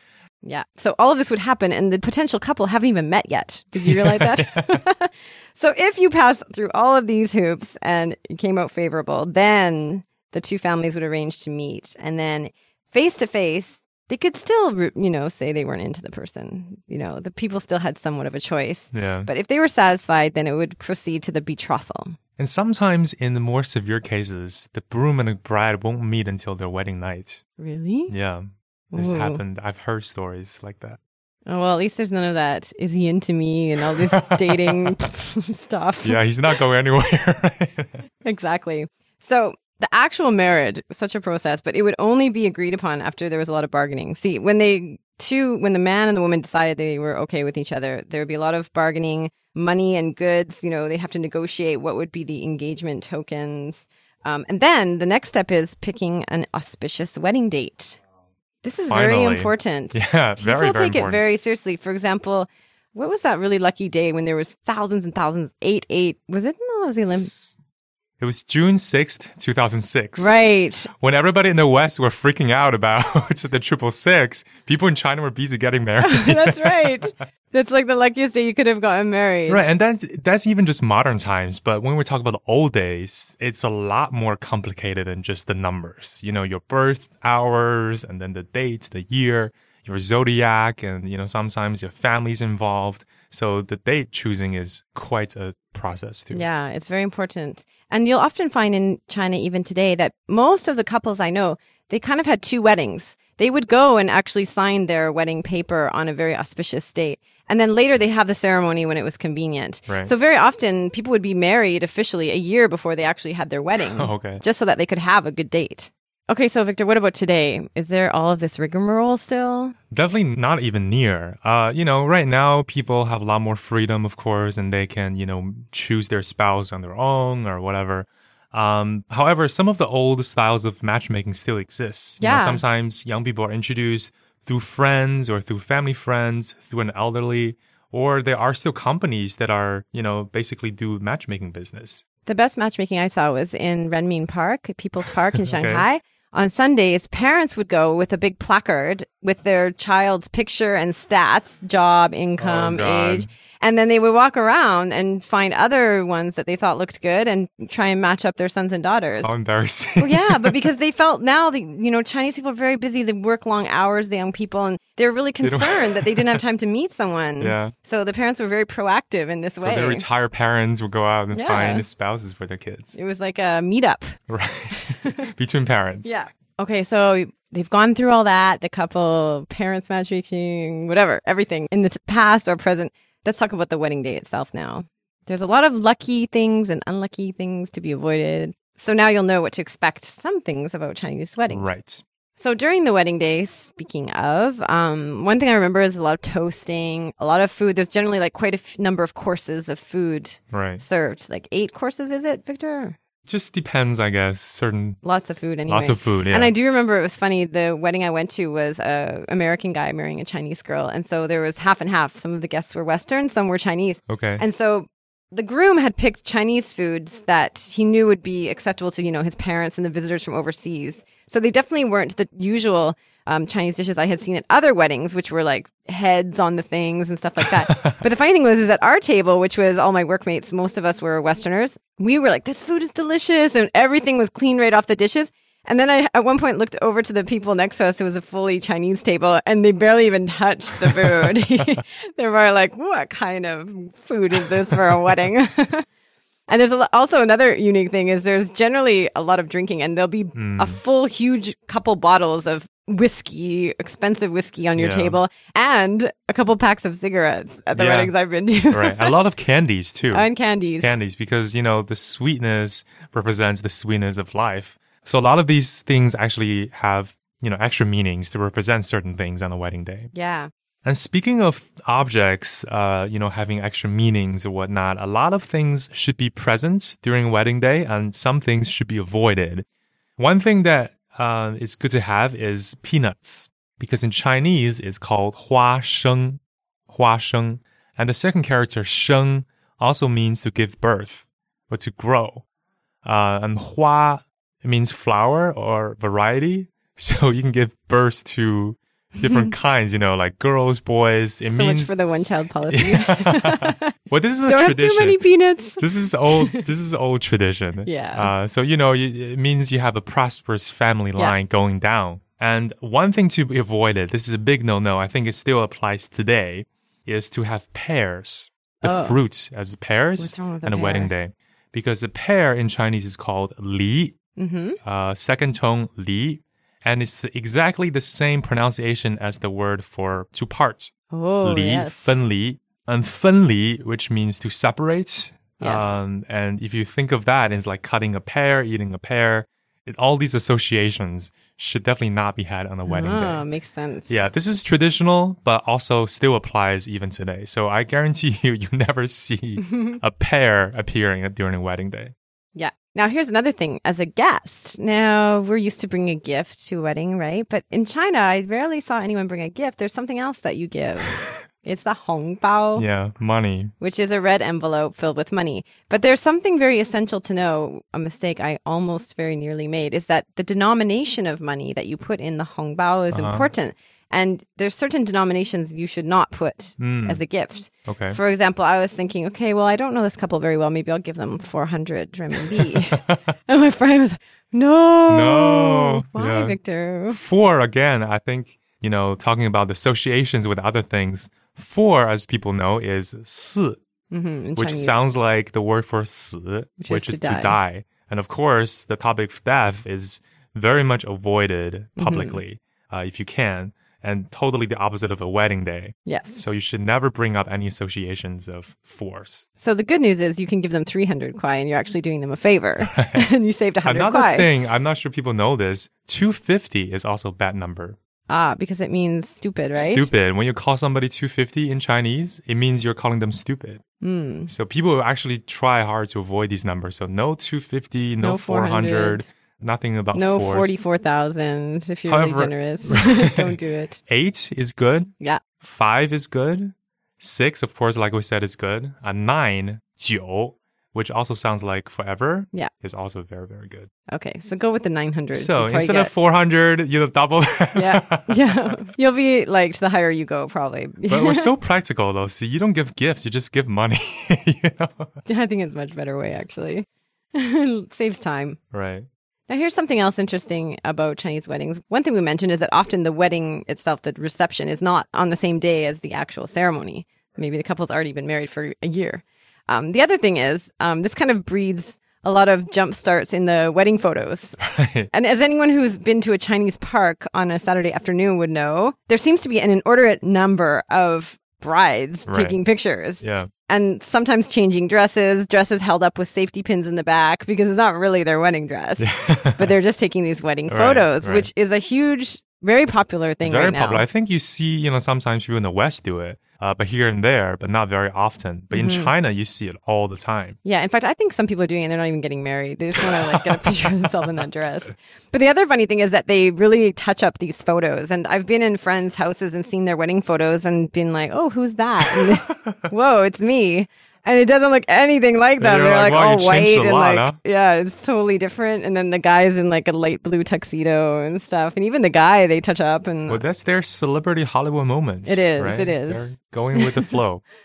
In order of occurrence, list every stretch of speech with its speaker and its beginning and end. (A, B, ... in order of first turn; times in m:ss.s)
0:00.4-0:22.2 A
0:03.8-0:04.7 B
0:18.9-0:19.3 B
0:22.4-0:27.4 B
0:27.6-0:28.1 A
0:28.1-0:31.0 B
0:28.9-0:29.4 A
0:31.5-0:36.2 A
0:34.1-0:34.9 B
0:36.0-0:38.0 B
0:38.2-0:58.0 A
0:58.6-1:07.3 A
0:58.9-1:01.3 B
1:07.1-1:07.5 B
1:08.2-1:10.4 B
1:10.2-1:10.9 A
1:11.0-1:17.1 B
1:16.0-1:19.7 A
1:19.5-1:36.4 B
1:36.3-1:59.7 A
1:53.8-1:54.4 B
1:59.9-2:22.0 B
2:12.2-2:12.6 A
2:22.3-2:39.3 A
2:25.3-2:25.8 B
2:32.4-2:33.3 B
2:39.2-2:40.6 B
2:40.0-2:50.0 A
2:45.4-2:46.4 B
2:47.4-2:47.7 B
2:49.6-2:52.9 B
2:51.3-2:51.8 A
2:52.9-2:54.2 A
2:54.3-2:56.1 B
2:54.8-2:55.3 A
2:56.0-3:11.7 A
3:11.5-3:12.0 B
3:12.4-3:23.0 A
3:20.5-3:20.8 B
3:23.3-3:25.0 B
3:25.0-4:05.8 A
3:25.7-3:26.5 B
3:34.1-3:34.4 B
3:47.4-3:48.0 B
4:06.5-4:19.1 A
4:10.3-4:10.8 B
4:14.8-4:15.2 B
4:17.7-4:18.1 B
4:18.7-4:20.3 B
4:20.1-4:21.0 A
4:20.8-4:30.1 B
4:30.1-4:30.5 A
4:30.8-4:39.6 B
4:40.2-4:52.4 B
4:53.0-5:01.9 B
4:59.2-4:59.5 A
5:01.5-5:03.9 A
5:02.7-5:05.2 B
5:04.5-5:06.6 A
5:05.8-5:24.1 B
5:07.8-5:08.3 A
5:18.8-5:19.2 A
5:20.2-5:21.1 A
5:24.4-5:24.8 A
5:24.8-5:30.9 B
5:31.1-5:32.2 A
5:31.4-5:43.4 B
5:35.6-5:36.0 A
5:42.9-5:44.3 A
5:44.1-5:52.1 B
5:49.6-5:50.0 A
5:52.5-6:02.9 A
6:02.8-6:03.7 B
6:03.8-6:27.2 A
6:13.1-6:13.5 B
6:16.8-6:17.2 B
6:17.9-6:18.2 B
6:22.6-6:23.2 B
6:25.1-6:26.6 B
6:27.1-6:33.8 B
6:34.1-6:35.0 A
6:34.6-6:49.4 B
6:36.8-6:37.6 A
6:42.0-6:42.4 A
6:46.1-6:46.4 A
6:49.6-6:54.5 A
6:52.9-6:53.2 B
6:53.8-6:58.0 B
6:58.3-7:00.1 A
6:59.8-7:03.8 B
7:04.0-7:04.5 A
7:04.5-7:10.7 B
7:08.2-7:09.3 A
7:10.1-7:14.0 A
7:12.1-7:13.5 B
7:14.1-7:23.9 B
7:24.1-7:26.1 A
7:25.3-7:28.8 B
7:27.8-7:31.5 A
7:31.1-7:35.2 B
7:35.2-7:38.6 A
7:38.7-7:39.1 B
7:39.5-8:14.0 A
7:54.6-7:55.1 B
8:02.3-8:02.6 B
8:03.2-8:03.5 B
8:09.0-8:09.7 B
8:10.7-8:11.5 B
8:13.4-8:20.6 B
8:18.7-8:19.1 A
8:20.6-8:43.4 A
8:23.0-8:24.0 B
8:32.0-8:32.8 B
8:35.6-8:37.4 B
8:43.3-8:47.4 B
8:45.2-8:47.2 A